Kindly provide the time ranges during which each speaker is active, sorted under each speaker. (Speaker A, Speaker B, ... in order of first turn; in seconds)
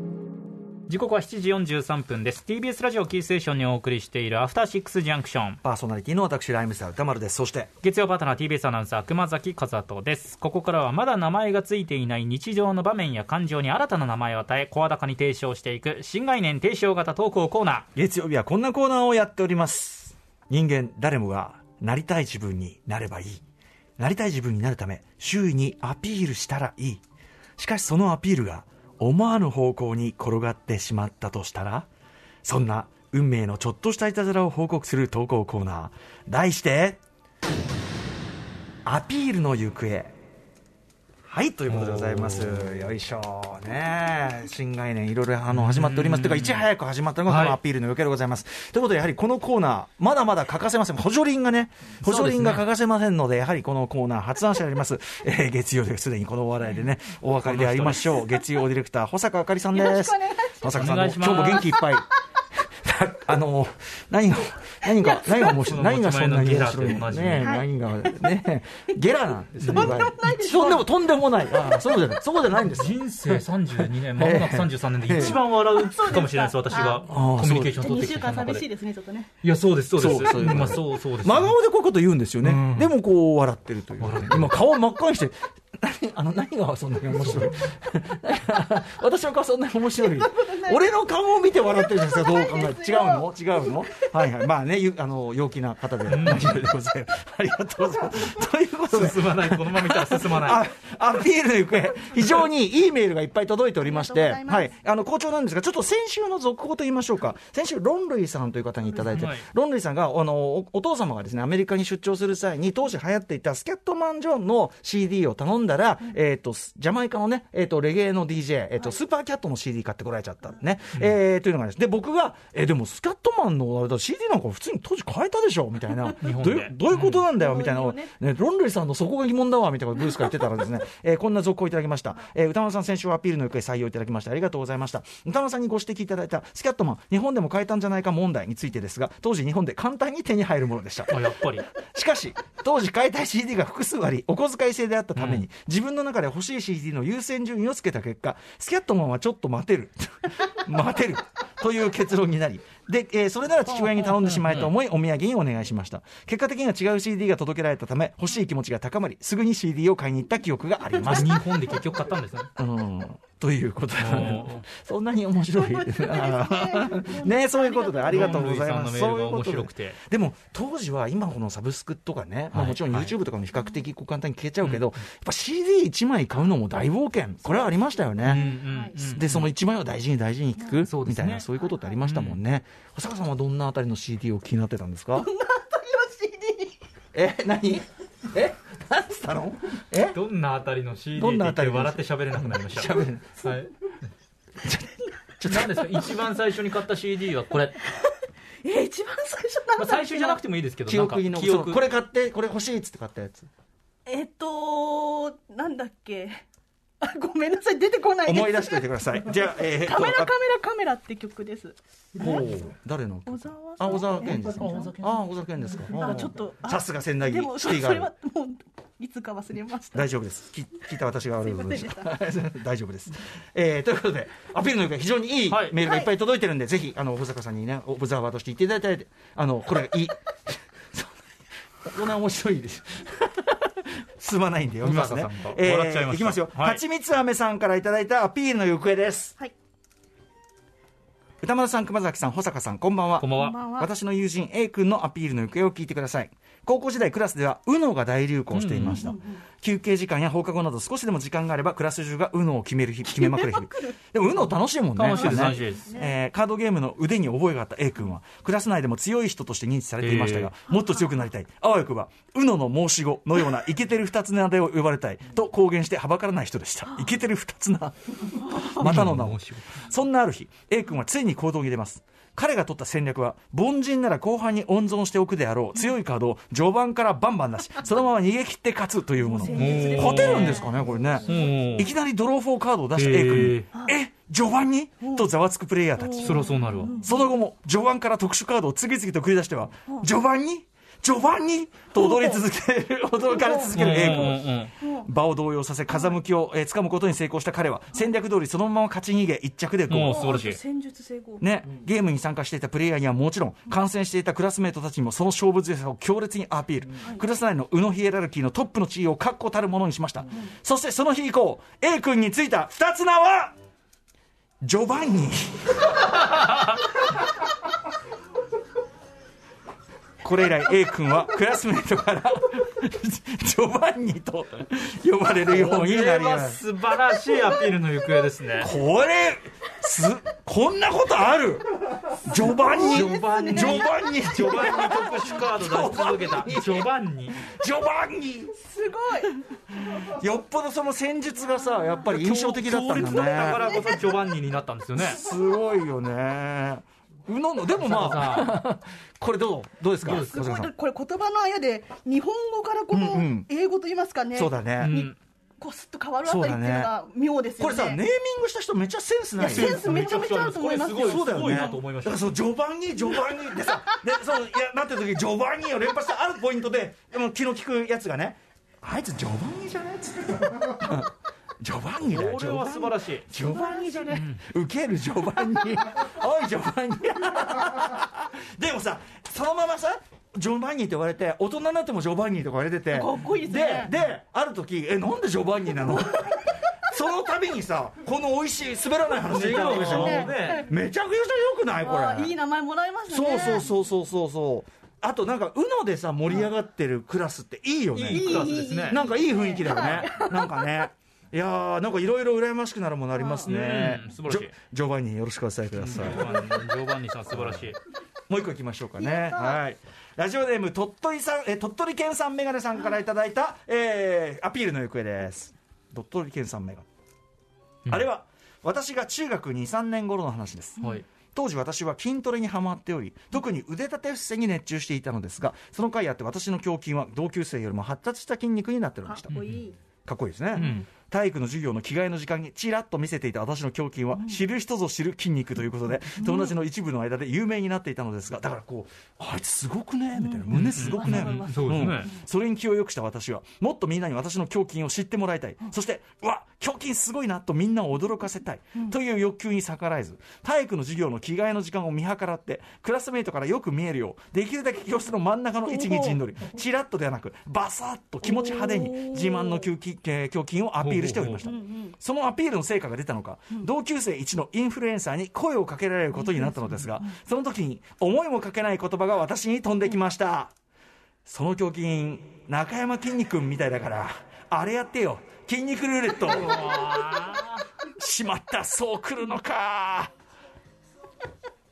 Speaker A: 0.9-5.6, 7.8-17.9, 41.7-42.9, 45.5-46.7, 47.3-47.6, 52.0-52.7, 57.4-58.2, 60.7-61.7, 65.5-67.5, 69.6-70.0, 72.6-78.7, 79.4-81.5, 82.4-82.9, 84.0-84.6, 96.1-96.6, 98.9-100.6, 109.1-109.5, 126.2-127.2, 141.1-141.7, 145.2-145.4, 154.2-154.7, 161.0-162.5, 164.0-164.7, 168.1-170.0, 172.5-173.2, 178.2-179.5, 180.9-181.5, 182.0-182.4, 190.1-193.7, 195.4-197.8, 199.8-201.8, 214.2-215.2, 225.5-225.8, 234.8-236.8, 243.2-243.6, 248.5-249.1, 254.9-255.9, 260.0-260.5, 268.6-269.8, 279.5-280.6, 281.3-281.9, 283.0-283.7, 286.2-287.0, 293.7-294.7, 299.9-300.6, 325.5-328.7, 332.8-337.4, 342.0-345.2, 347.8-348.7, 350.0-350.3, 354.8-355.1, 359.4-362.4, 372.0-373.3, 374.1-374.4, 389.3-390.7, 397.9-399.0, 403.4-404.5, 405.8-407.8, 420.8-421.1, 429.3-429.6, 430.6-430.9, 440.5-442.1, 460.8-461.5, 476.2-477.7
Speaker B: 5.6-7.7, 17.9-23.4, 24.0-27.0, 27.6-31.9, 32.5-37.0, 38.9-40.1, 41.3-62.1, 62.8-75.4, 76.8-78.1, 80.0-141.3, 141.8-161.4, 162.6-178.5, 179.0-185.3, 187.1-190.2, 191.2-193.5, 194.6-194.9, 195.4-196.1, 200.9-203.5, 208.2-210.3, 212.2-218.1, 219.9-231.1, 231.8-239.4, 241.4-286.5, 287.0-300.3, 301.4-313.6, 314.6-315.7, 320.2-326.6, 328.6-338.6, 339.9-343.8, 345.0-350.7, 352.9-353.5, 354.3-354.9, 356.2-356.9, 357.6-359.9, 361.0-392.4, 393.1-406.4, 407.3-407.7, 408.3-416.9, 417.9-429.4, 430.1-470.5, 471.2-476.8, 477.9-480.1
Speaker C: 59.7-60.8, 67.4-68.3, 69.7-70.9, 75.2-77.1, 77.8-79.3, 89.9-90.9, 91.5-94.1, 103.8-104.7, 127.3-128.1, 165.5-168.5, 177.4-179.0, 185.2-186.8, 197.9-200.4, 204.1-206.4, 207.0-212.4, 213.3-214.9, 215.9-220.1, 221.4-222.2, 225.8-226.1, 243.3-243.9, 249.1-249.4, 255.3-256.1, 279.3-281.4, 286.0-287.2, 292.0-292.4, 293.3-293.9, 294.8-295.1, 300.1-301.4, 332.7-333.9, 338.6-339.4, 341.6-342.0, 343.4-344.0, 350.1-358.0, 359.4-361.8, 363.3-363.7, 382.9-383.9, 389.5-390.7, 391.8-393.7, 398.1-400.7, 403.1-403.5, 409.0-409.6, 429.1-429.8, 436.2-436.5, 440.2-441.8, 455.7-456.2, 458.2-459.7, 461.4-462.0, 466.2-467.1